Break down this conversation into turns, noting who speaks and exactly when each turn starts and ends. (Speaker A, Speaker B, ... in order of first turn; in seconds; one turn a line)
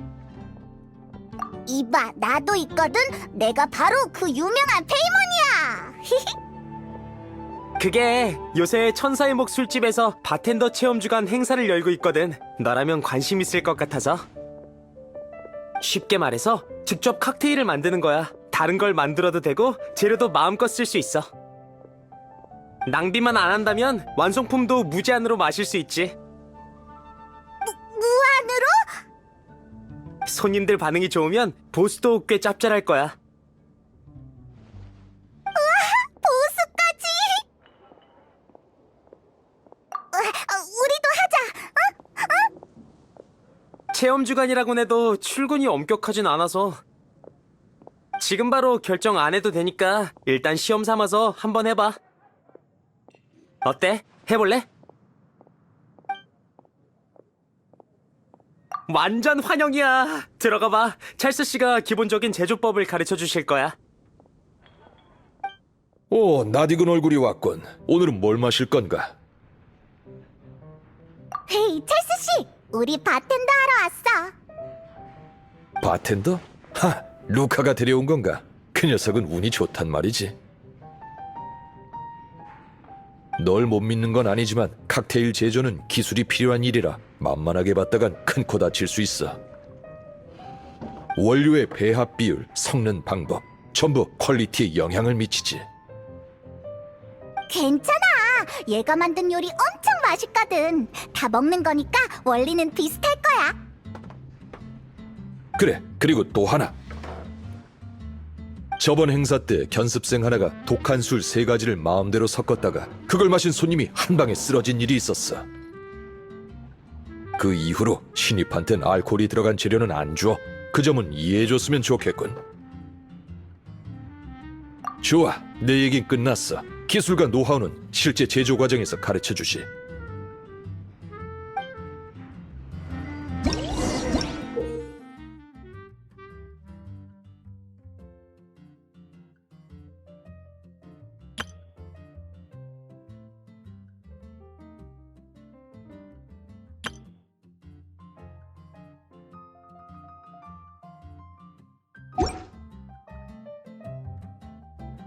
Speaker A: 1.7-6.3
Speaker B: 7.8-14.2
Speaker B: 15.8-21.3
Speaker B: 22.9-26.1
Speaker A: 27.7-28.9
Speaker B: 30.3-33.1
Speaker A: 35.5-37.5
Speaker A: 40.1-42.5
Speaker B: 43.9-46.8
Speaker B: 48.2-52.0
Speaker B: 53.6-54.7
Speaker B: 58.9-63.8
Speaker C: 66.1-69.2
Speaker A: 71.5-74.3
Speaker C: 75.8-80.3
Speaker C: 83.4-89.4
Speaker C: 91.2-95.7
Speaker A: 97.5-103.6
Speaker C: 105.6-106.7
Speaker C: 108.8-115.5
Speaker C: 117.4-122.4
Speaker C: 125.0-129.7